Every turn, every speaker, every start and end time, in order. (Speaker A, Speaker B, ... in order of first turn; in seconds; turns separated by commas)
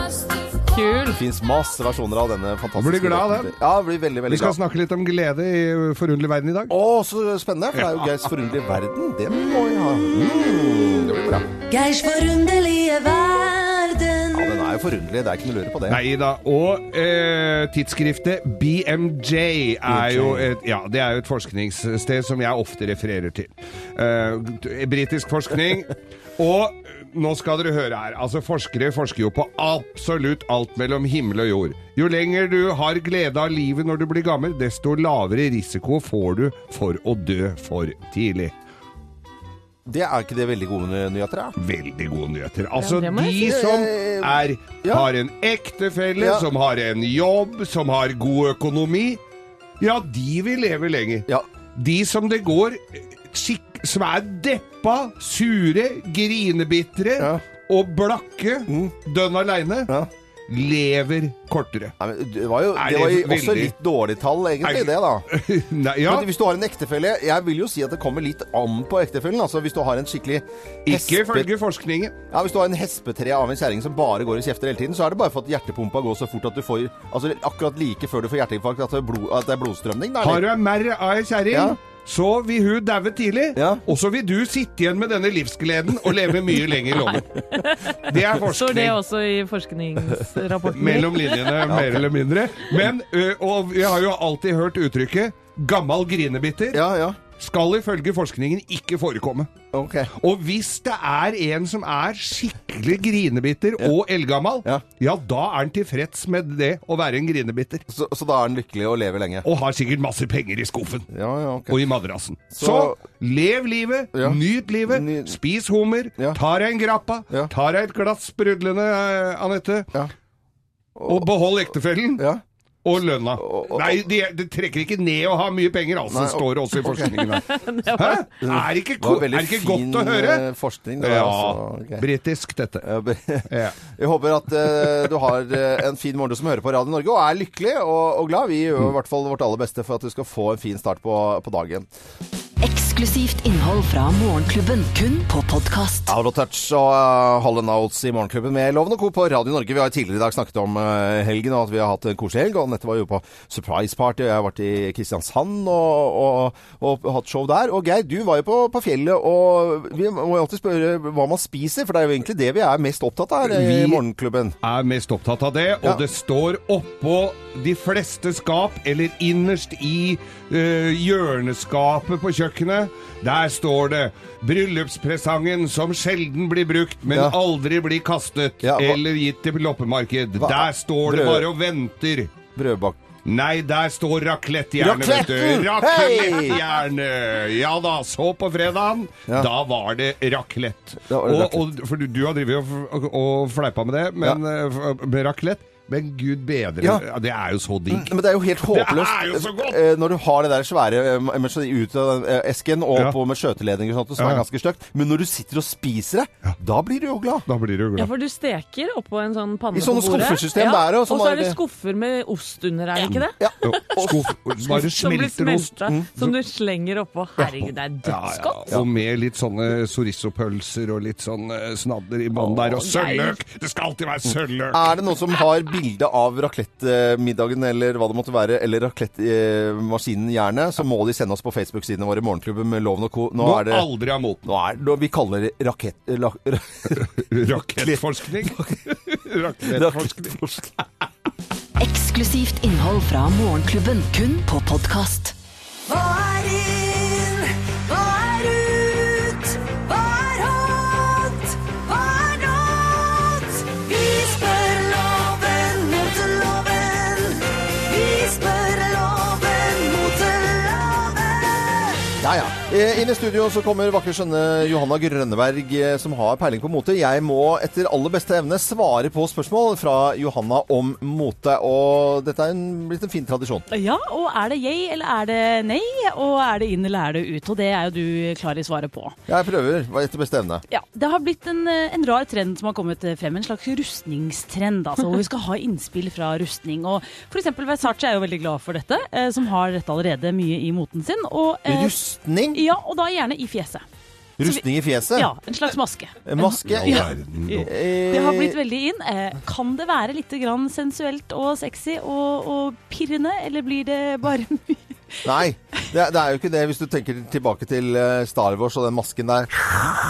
Speaker A: 0.7-1.2, Speaker B: 1.1-4.6, Speaker C: 2.8-3.5, Speaker C: 4.3-6.7, Speaker B: 6.7-11.5, Speaker C: 7.7-8.2, Speaker B: 14.3-16.0, Speaker C: 15.9-38.5, Speaker B: 19.9-20.5, Speaker B: 39.9-41.5, Speaker C: 41.6-49.2, Speaker A: 42.8-43.5, Speaker B: 43.4-45.1, Speaker B: 46.2-46.5, Speaker C: 49.8-59.9, Speaker B: 57.2-57.4, Speaker B: 58.7-58.9, Speaker C: 60.5-61.9, Speaker B: 62.0-65.3, Speaker C: 62.7-63.7, Speaker C: 64.6-66.2, Speaker B: 66.0-71.5, Speaker C: 70.8-72.1, Speaker B: 72.3-80.5, Speaker C: 80.2-87.3, Speaker B: 81.5-81.8, Speaker B: 83.5-83.8, Speaker A: 87.5-91.6, Speaker C: 87.9-89.0, Speaker C: 90.7-96.8, Speaker B: 91.7-92.1, Speaker B: 96.7-97.2, Speaker C: 97.4-99.5, Speaker B: 99.7-100.1, Speaker C: 100.2-107.8, Speaker B: 107.9-109.5, Speaker C: 109.4-111.0, Speaker B: 111.1-111.8, Speaker C: 111.7-119.9, Speaker B: 112.5-113.0, Speaker B: 114.1-115.4, Speaker B: 121.0-121.3, Speaker C: 121.0-122.2, Speaker B: 122.2-122.4, Speaker C: 122.8-130.4, Speaker B: 123.4-124.0, Speaker B: 126.0-127.2, Speaker A: 127.1-128.2, Speaker B: 128.4-132.1, Speaker C: 131.0-132.9, Speaker B: 132.8-141.9, Speaker C: 133.5-133.8, Speaker D: 142.6-146.1, Speaker B: 146.1-164.5, Speaker C: 163.5-164.0, Speaker C: 164.6-182.3, Speaker B: 177.1-177.4, Speaker B: 178.6-179.0, Speaker B: 180.4-181.5, Speaker B: 182.6-183.0, Speaker C: 183.2-199.8, Speaker B: 184.8-186.6, Speaker B: 191.1-191.7, Speaker B: 197.9-207.4, Speaker C: 204.2-204.4, Speaker C: 207.5-208.1, Speaker A: 207.9-213.4, Speaker B: 209.7-211.6, Speaker B: 213.4-214.3, Speaker C: 213.6-215.7, Speaker A: 214.6-218.6, Speaker C: 218.0-224.9, Speaker B: 222.3-222.8, Speaker A: 222.8-223.4, Speaker B: 224.7-233.9, Speaker C: 233.4-234.4, Speaker B: 234.4-238.8, Speaker C: 236.9-240.4, Speaker B: 239.6-240.8, Speaker D: 241.8-245.3, Speaker B: 262.2-273.7, Speaker E: 273.7-279.1, Speaker B: 279.3-280.6, Speaker E: 280.7-291.9, Speaker B: 291.6-292.6, Speaker E: 292.5-293.8, Speaker B: 294.4-295.3, Speaker E: 294.4-305.3, Speaker B: 296.2-298.6, Speaker C: 296.7-297.7, Speaker B: 305.2-309.7